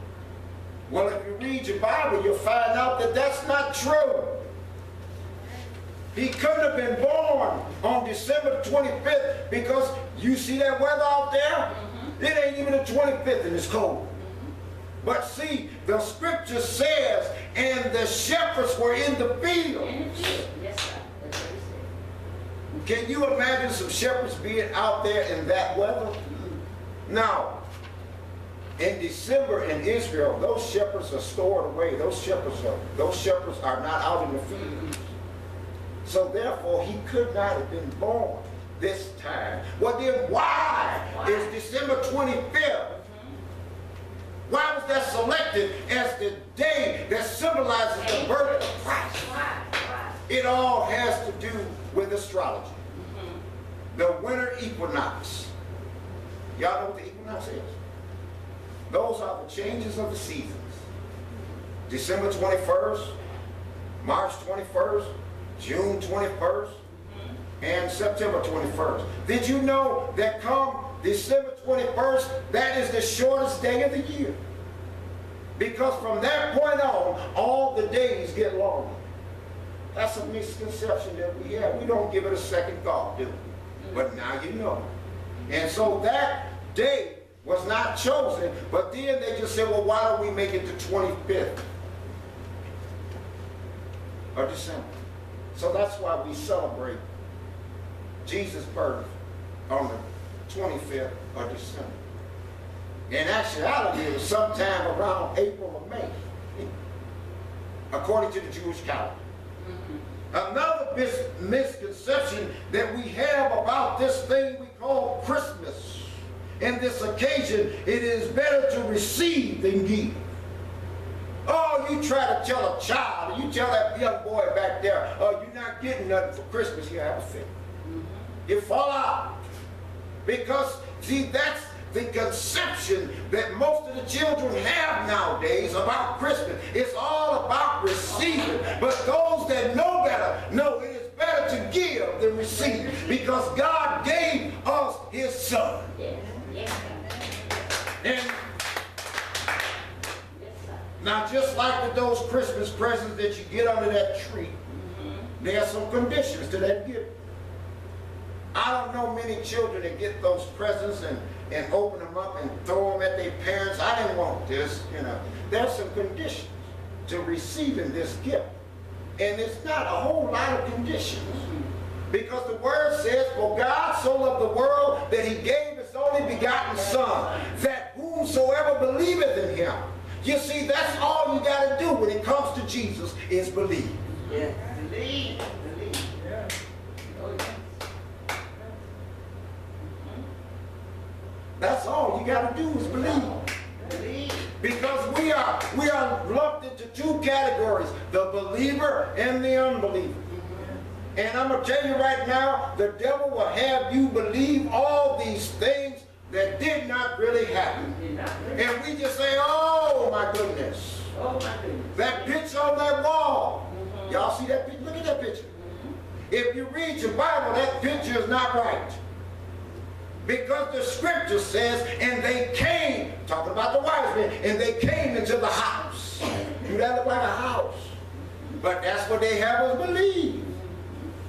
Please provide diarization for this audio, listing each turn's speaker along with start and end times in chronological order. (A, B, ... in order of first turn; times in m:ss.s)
0:00.9-0:04.5 A
0:06.1-0:14.1 A
0:11.7-0:12.2 B
0:14.2-0:14.5 B
0:15.0-0:20.4 A
0:19.8-0:21.9 B
0:22.8-0:26.2 A
0:26.3-0:26.6 B
0:27.1-0:27.6 A
0:28.8-0:34.9 A
0:34.6-0:35.0 B
0:36.0-0:43.0 A
0:41.1-0:41.5 B
0:44.5-0:49.4 A
0:47.9-0:50.2 B
0:50.3-0:52.8 A
0:52.9-0:53.4 B
0:53.9-0:55.5 A
0:56.6-0:57.8 A
0:58.9-1:00.8 A
1:01.9-1:03.2 A
1:04.0-1:06.8 A
1:07.6-1:14.4 A
1:15.6-1:19.0 A
1:19.9-1:24.9 A
1:25.5-1:31.6 A
1:34.3-1:34.9 A
1:35.5-1:37.0 A
1:38.2-1:39.1 A
1:39.7-1:42.0 A
1:43.1-1:46.7 A
1:47.9-1:49.2 A
1:49.6-1:50.0 B
1:50.3-2:00.2 A
2:01.4-2:07.5 A
2:07.8-2:08.3 B
2:08.5-2:09.4 A
2:10.2-2:25.9 A
2:18.1-2:18.8 B
2:22.5-2:23.2 B
2:26.0-2:27.5 B
2:28.0-2:28.4 A
2:30.3-2:30.8 B
2:31.0-2:34.6 A
2:34.7-2:35.3 B
2:35.4-2:37.1 A
2:38.5-2:48.5 A
2:49.2-2:51.5 A
2:51.3-2:51.6 B
2:52.1-3:04.0 A
2:56.3-2:57.5 B
3:04.1-3:06.3 B
3:07.1-3:07.8 B
3:09.8-3:10.2 B
3:11.6-3:13.4 A
3:13.0-3:14.6 B
3:14.6-3:20.2 A
3:20.3-3:20.8 B
3:21.2-3:27.9 A
3:27.7-3:28.7 B
3:28.6-3:31.1 A
3:31.1-3:32.4 B
3:32.0-3:35.5 A
3:33.7-3:34.2 B
3:35.5-3:35.9 B
3:36.3-3:39.0 A
3:40.2-3:47.9 A
3:48.6-3:50.6 A